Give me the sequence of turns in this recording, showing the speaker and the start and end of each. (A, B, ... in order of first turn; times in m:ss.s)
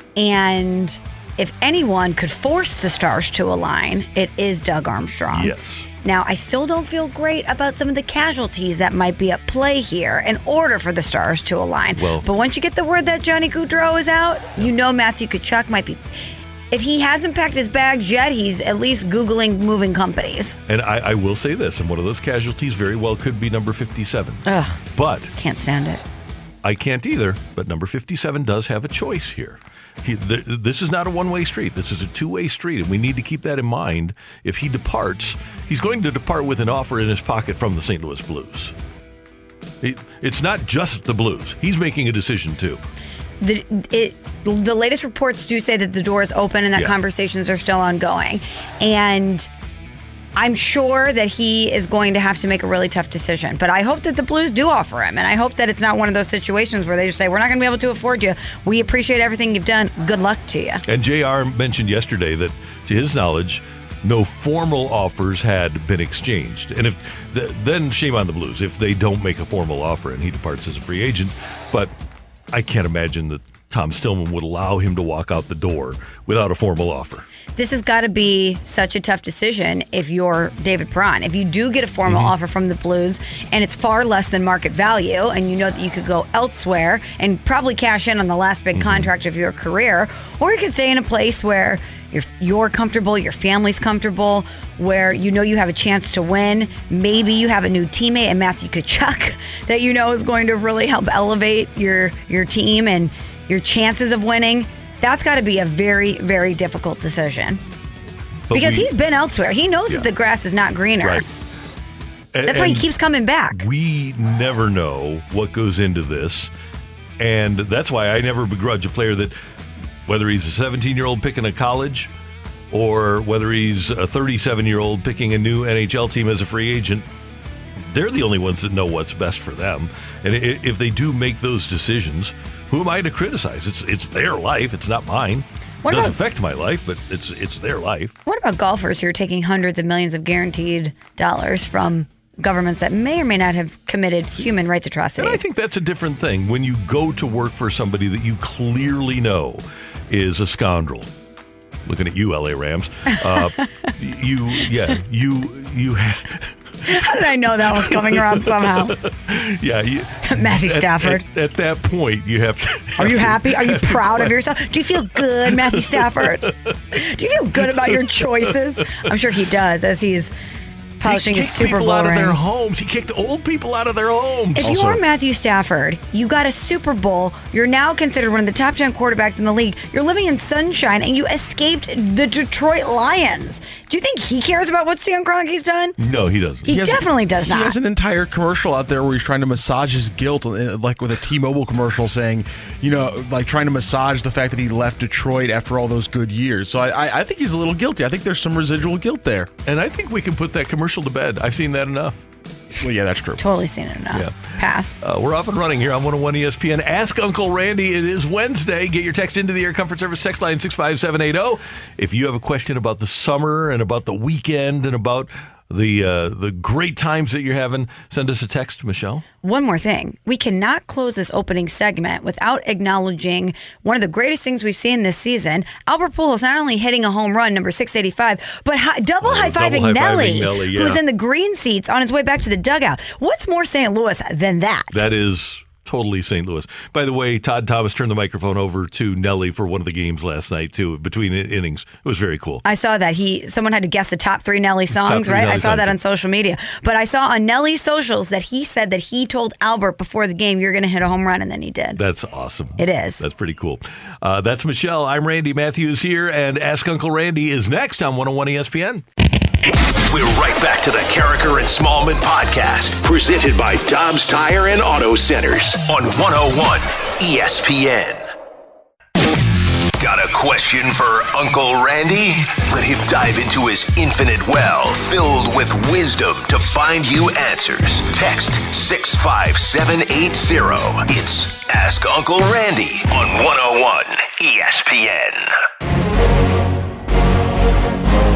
0:00.2-0:16.0 A
0:05.3-0:05.9 B
0:12.0-0:12.3 B
0:16.7-0:20.6 A
0:20.7-0:25.3 B
0:24.4-0:24.8 A
0:25.4-0:26.0 A
0:26.6-0:38.8 B
0:39.8-0:42.8 B
0:43.4-0:49.5 A
0:50.4-1:00.8 A
1:00.9-1:11.9 B
1:12.5-1:17.3 B
1:17.6-1:47.6 A
1:22.1-1:22.3 B
1:28.7-1:29.1 B
1:48.5-1:48.9 B
1:48.5-1:51.3 A
1:51.0-1:51.3 B
1:52.3-1:52.9 B
1:52.5-1:53.7 A
1:53.5-1:56.5 B
1:57.2-1:59.4 B
2:00.1-2:02.1 B
2:02.7-2:07.1 B
2:07.8-2:18.1 B
2:15.8-2:16.2 A
2:18.3-2:25.4 A
2:25.2-2:31.1 B
2:31.8-2:37.2 B
2:33.2-2:33.9 A
2:36.9-2:39.0 A
2:37.7-2:44.4 B
2:40.2-2:41.2 A
2:43.0-2:50.3 A
2:44.9-2:46.7 B
2:47.6-2:49.1 B
2:51.0-2:52.4 A
2:51.0-2:54.7 B
2:54.6-3:06.0 A
2:54.6-2:55.0 C
3:06.0-3:06.6 B
3:06.6-3:07.8 A
3:06.7-3:19.5 C
3:19.6-3:22.2 B
3:22.8-3:23.4 C
3:23.4-3:25.0 A
3:24.1-3:24.4 B
3:25.0-3:39.2 B
3:39.4-3:55.0 A
3:49.2-3:51.0 B
3:54.9-4:02.6 B
4:02.6-4:12.0 A
4:04.9-4:06.0 B
4:12.0-4:19.0 B
4:12.8-4:13.2 A
4:20.1-4:28.3 D
4:30.0-4:45.6 D